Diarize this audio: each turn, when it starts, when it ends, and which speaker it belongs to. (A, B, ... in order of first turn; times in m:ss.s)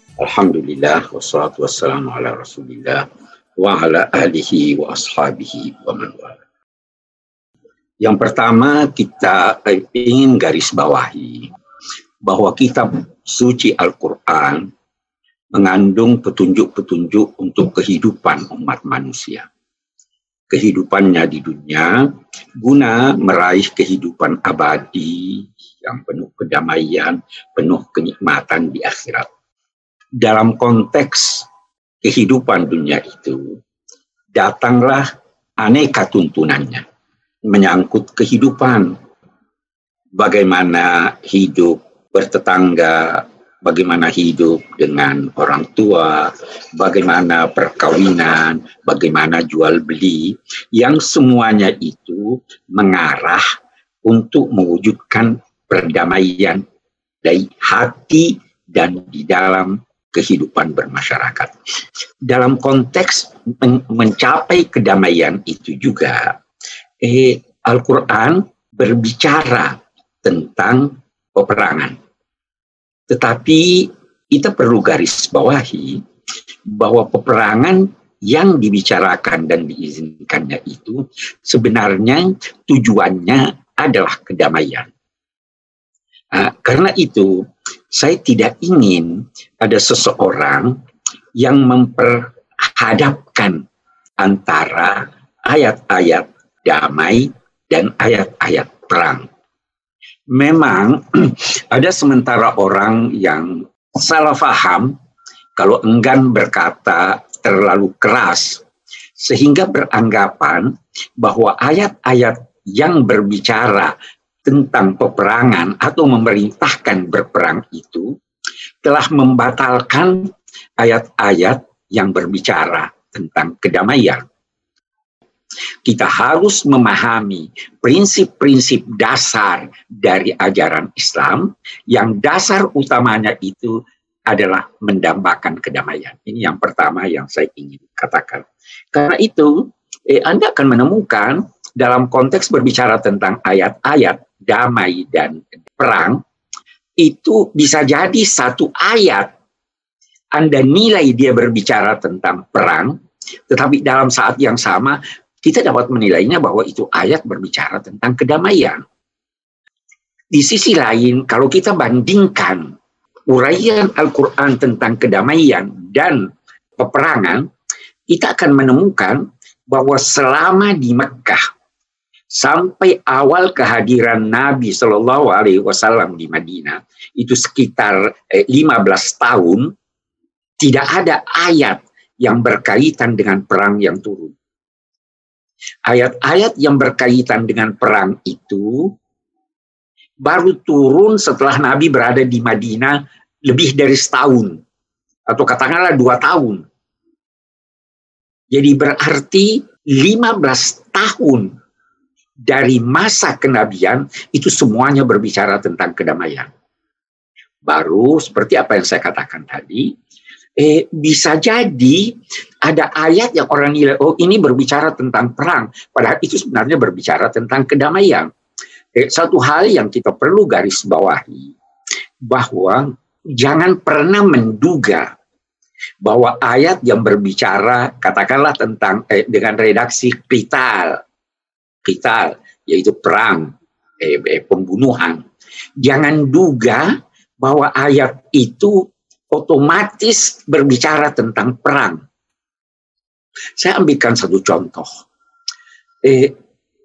0:00.2-0:06.4 A
0:08.0-0:11.5 A
0:12.2-0:14.7 A
0:15.5-0:19.5 A
0:20.5-0:29.3 A
0:30.2-0:31.5 A
0:32.0-0:33.5 A
0:34.3-0:35.1 A
0:35.6-0:36.8 A
0:37.5-0:38.9 A
0:40.1-0:53.4 A
0:54.0-0:56.6 A
0:57.2-1:01.5 A
1:02.3-1:06.4 A
1:07.0-1:12.0 A
1:13.1-1:16.0 A
1:16.7-1:24.9 A
1:26.3-1:30.7 A
1:31.4-1:33.6 A
1:34.2-1:39.2 A
1:40.3-1:44.9 A
1:45.6-1:48.6 A
1:49.2-1:53.9 A
1:54.4-1:58.1 A
1:58.8-2:04.2 A
2:05.8-2:26.2 A
2:27.0-2:29.3 A
2:30.3-2:32.9 A
2:33.5-2:38.8 A
2:40.3-2:42.7 A
2:43.3-2:47.4 A
2:48.1-2:51.4 A
2:52.3-2:59.7 A
3:00.6-3:04.3 A
3:05.8-3:08.9 A
3:10.2-3:14.6 A
3:15.3-3:16.6 A
3:18.5-3:21.5 A
3:22.5-3:26.5 A
3:27.6-3:29.9 A
3:30.6-3:38.3 A
3:39.0-3:41.5 A
3:42.2-3:45.1 A
3:46.0-3:51.0 A
3:51.8-3:53.5 A
3:54.0-3:55.2 A
3:55.8-3:58.8 A
3:59.3-4:02.0 A
4:03.6-4:05.0 A
4:06.0-4:06.3 A